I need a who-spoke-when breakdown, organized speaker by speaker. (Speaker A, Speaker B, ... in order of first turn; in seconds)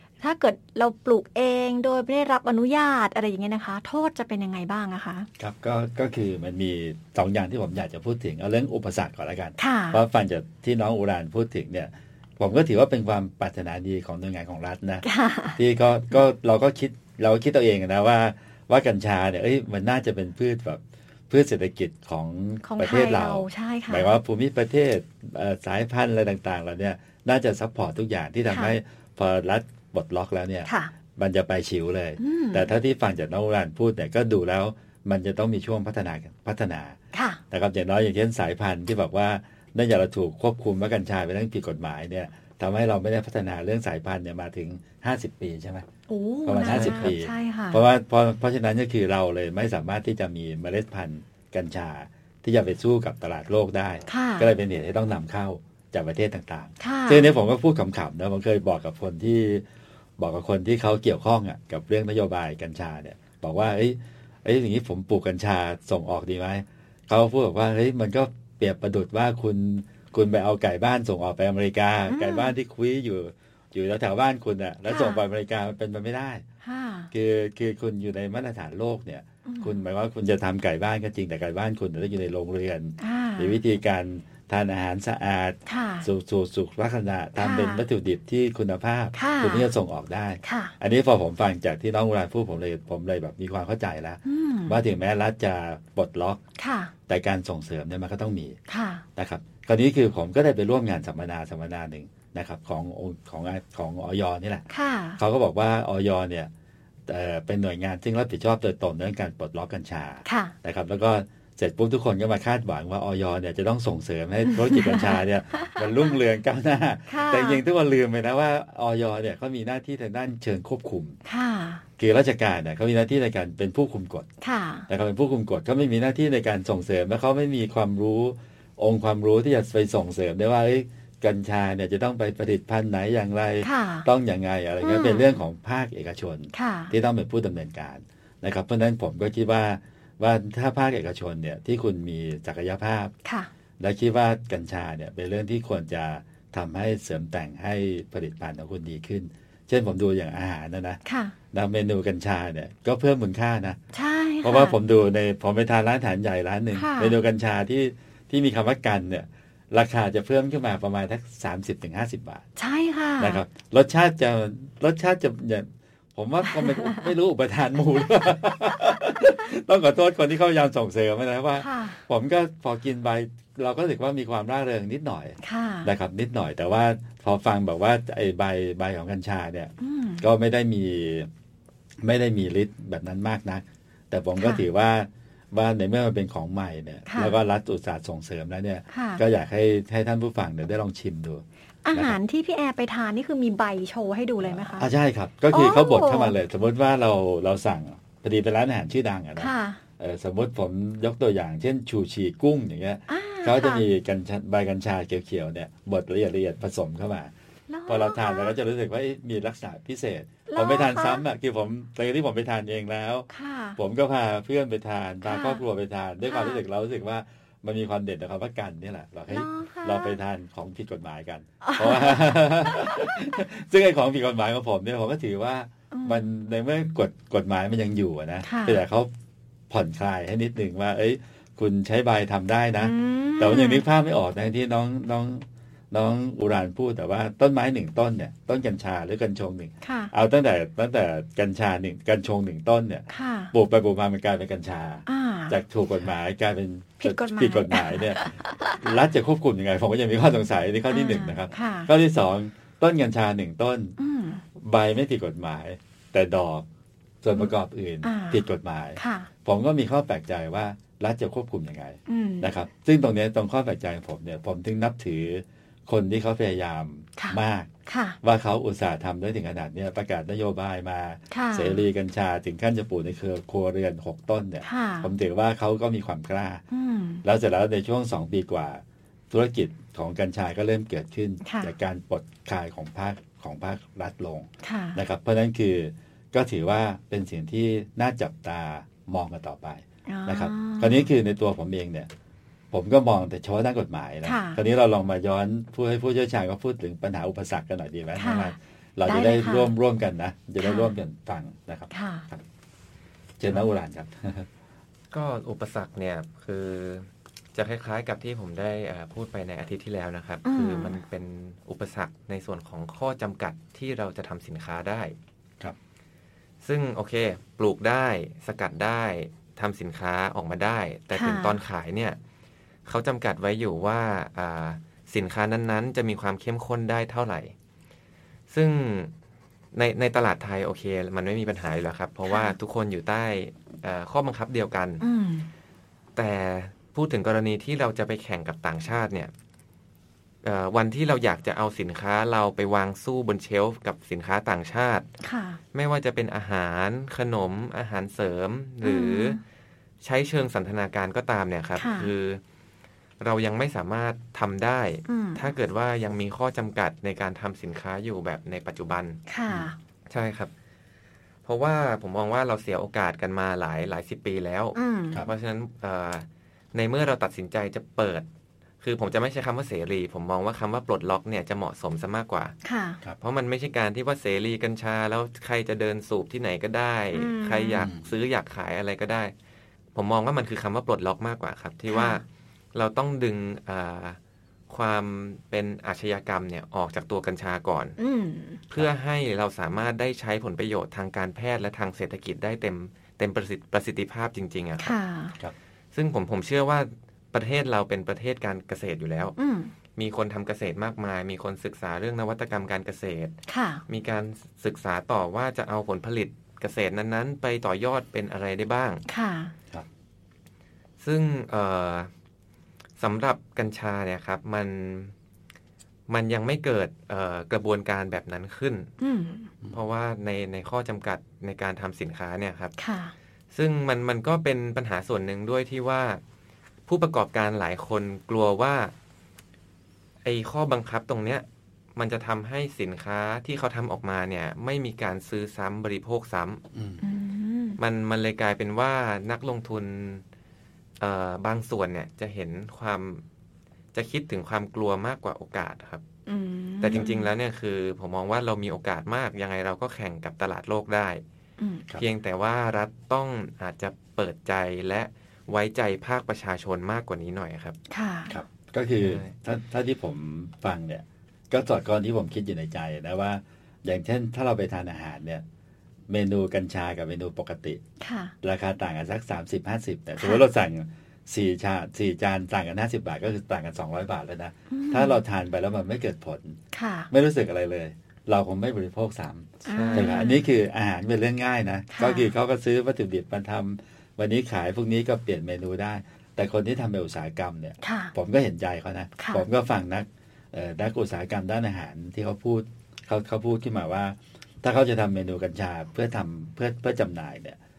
Speaker A: 0.2-5.3, 9.6-10.0, 15.0-15.6, 22.6-24.1, 30.6-30.9, 32.2-32.7, 37.1-37.4, 46.1-47.8, 54.1-54.5, 56.8-57.3, 72.1-72.5, 74.9-75.2, 76.6-77.1, 79.5-79.8, 83.0-83.6, 85.7-86.1, 87.4-87.8, 89.1-89.7, 90.4-90.7, 94.2-94.8, 96.6-96.9, 98.7-99.0, 104.7-105.2, 110.2-110.5, 114.5-115.8, 117.1-117.6, 121.2-121.8, 124.4-124.9, 133.6-134.1, 134.8-135.2, 136.5-136.9, 143.2-143.5, 151.0-151.3, 153.9-154.8, 156.7-157.2, 162.6-163.4, 166.5-167.1, 171.6-172.0, 175.4-175.9, 179.8-180.2, 184.4-184.6, 187.1-187.3, 188.9-189.2, 191.8-194.9, 195.5-196.3, 199.4-199.8, 203.1-203.8, 207.7-208.5, 210.5-211.2, 213.3-213.8, 215.2-215.6, 216.2-216.6, 219.3-220.2, 221.6-223.2, 225.9-226.2, 228.4-228.8, 232.8-233.8, 239.8-240.1, 243.1-243.5, 245.1-245.6, 247.0-248.8, 250.9-251.9, 254.0-254.4, 258.0-258.4, 259.0-259.3, 262.1-262.5, 267.2-268.2, 271.3-271.8, 274.6-275.1, 276.7-277.2, 281.4-281.7, 284.6-285.0, 290.1-291.1, 294.2-294.6, 298.1-298.5, 299.1-299.7, 300.6-300.9, 301.9-302.2, 310.4-311.0, 321.1-321.6, 332.3-332.5, 335.0-335.5, 345.2-345.6, 348.8-349.4, 351.8-352.1, 355.1-355.5, 359.3-359.8, 364.7-365.2, 372.6-373.0, 377.1-377.9, 381.9-382.2, 388.0-388.6, 394.8-395.4, 399.4-399.7, 403.5-403.8, 409.1-409.5, 419.0-419.5, 422.8-423.1, 437.0-437.8, 446.3-447.3, 451.6-451.8, 457.9-458.3, 468.0-468.3, 474.7-475.1, 476.7-477.1, 479.6-480.4, 481.9-482.3, 487.8-488.1, 489.2-489.4
Speaker B: 5.4-15.0, 15.6-37.0, 37.5-45.9, 46.5-59.6, 60.2-76.4, 77.1-96.4, 97.1-98.6, 99.2-104.7, 105.2-106.5, 107.1-121.2, 122.0-124.3, 124.9-143.1, 143.8-151.0, 151.5-153.8, 154.4-162.4, 163.2-181.3, 182.0-192.2, 194.4-207.3, 207.9-229.1, 229.7-248.2, 248.8-253.9, 254.6-256.6, 257.2-267.7, 268.2-276.6, 277.2-292.1, 292.7-302.4, 303.4-304.5, 377.8-378.0, 436.7-437.0, 458.3-465.4, 466.1-467.8, 468.4-476.6, 477.1-497.6
Speaker C: 46.6-47.1, 305.1-315.1, 316.6-322.2, 322.8-327.5, 328.5-329.1, 329.7-335.0, 336.1-339.3, 340.4-345.1, 345.7-349.4, 350.0-352.4, 353.2-359.2, 360.1-360.5, 361.4-368.2, 368.8-372.5, 373.2-379.3, 379.9-382.2, 382.7-384.2, 384.7-388.0, 388.7-394.9, 395.9-399.3, 399.9-409.0, 411.0-412.1, 413.0-415.1, 416.1-418.9, 419.7-422.7, 423.5-426.2, 426.9-428.9, 430.2-431.4, 431.9-436.6, 437.8-440.2, 441.0-443.2, 443.9-446.0, 446.8-451.2, 452.0-457.8, 459.0-459.3, 479.6-480.2